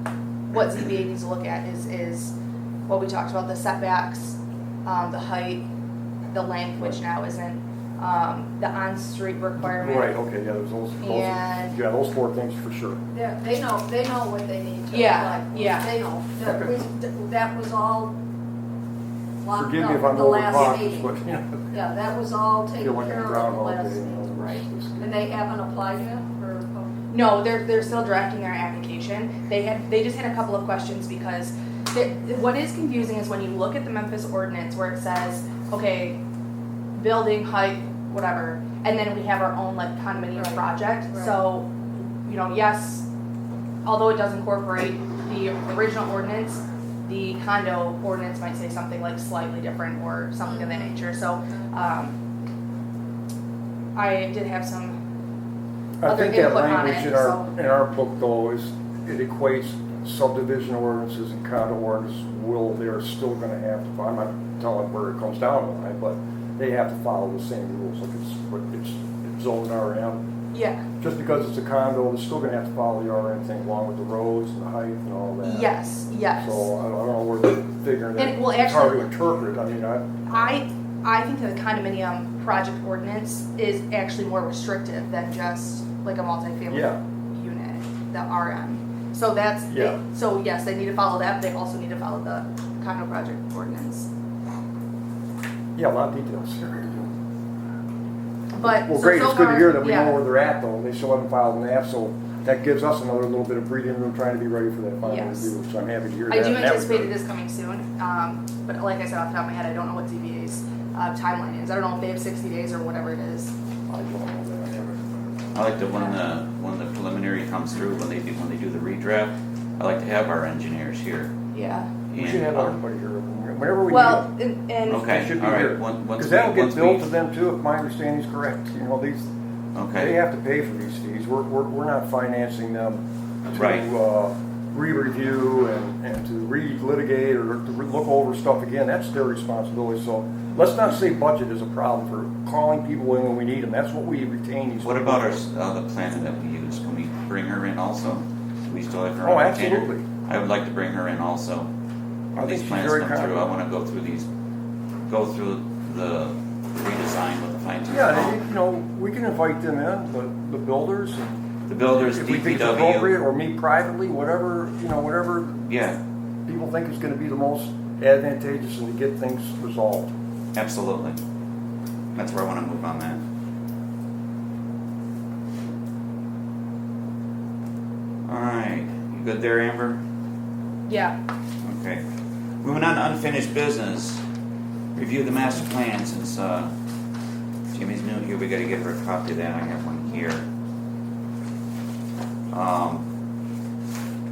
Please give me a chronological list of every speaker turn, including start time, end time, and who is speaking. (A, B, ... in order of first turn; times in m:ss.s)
0:00.5-0:02.3 A
0:02.9-0:05.6 A
0:06.3-0:10.1 A
0:09.6-0:13.0 B
0:11.0-0:11.8 A
0:13.1-0:18.2 C
0:14.9-0:15.9 A
0:16.4-0:16.8 B
0:19.4-0:21.1 C
0:19.5-0:21.7 B
0:21.7-0:24.4 C
0:22.8-0:25.1 B
0:24.4-0:24.6 A
0:25.0-0:27.0 C
0:27.1-0:36.2 A
0:37.0-0:41.7 A
0:40.4-0:41.4 C
0:42.2-0:43.1 A
0:43.8-0:52.1 A
0:53.9-0:55.0 A
0:56.0-1:10.2 B
0:56.0-0:57.5 A
1:10.5-1:10.8 A
1:11.0-1:15.7 B
1:15.4-1:16.7 A
1:16.3-1:20.4 B
1:18.2-1:19.1 A
1:20.3-1:34.1 A
1:26.7-1:27.0 B
1:29.7-1:30.0 B
1:35.8-1:37.1 B
1:38.5-1:40.2 A
1:38.6-1:47.1 B
1:45.0-1:45.5 A
1:46.3-1:53.5 A
1:53.9-1:55.6 B
1:55.5-2:01.3 D
1:55.9-1:56.2 A
2:01.5-2:01.9 A
2:02.1-2:02.8 D
2:02.1-2:04.3 B
2:03.9-2:05.2 A
2:04.8-2:07.1 D
2:04.9-2:09.3 B
2:09.7-2:10.2 D
2:09.9-2:25.4 B
2:13.5-2:13.8 D
2:24.8-2:31.7 D
2:29.2-2:30.0 B
2:32.3-2:33.5 B
2:32.4-2:34.3 D
2:35.0-2:38.4 D
2:37.9-2:41.4 B
2:41.7-2:43.2 D
2:42.0-2:45.6 B
2:45.6-2:46.0 D
2:46.4-2:50.1 B
2:50.5-2:51.2 D
2:52.1-2:53.2 D
2:58.2-3:00.0 D
3:00.9-3:01.2 A
3:01.6-3:02.0 D
3:02.6-3:04.2 D
3:05.0-3:06.7 D
3:07.7-3:10.4 D
3:12.5-3:13.0 D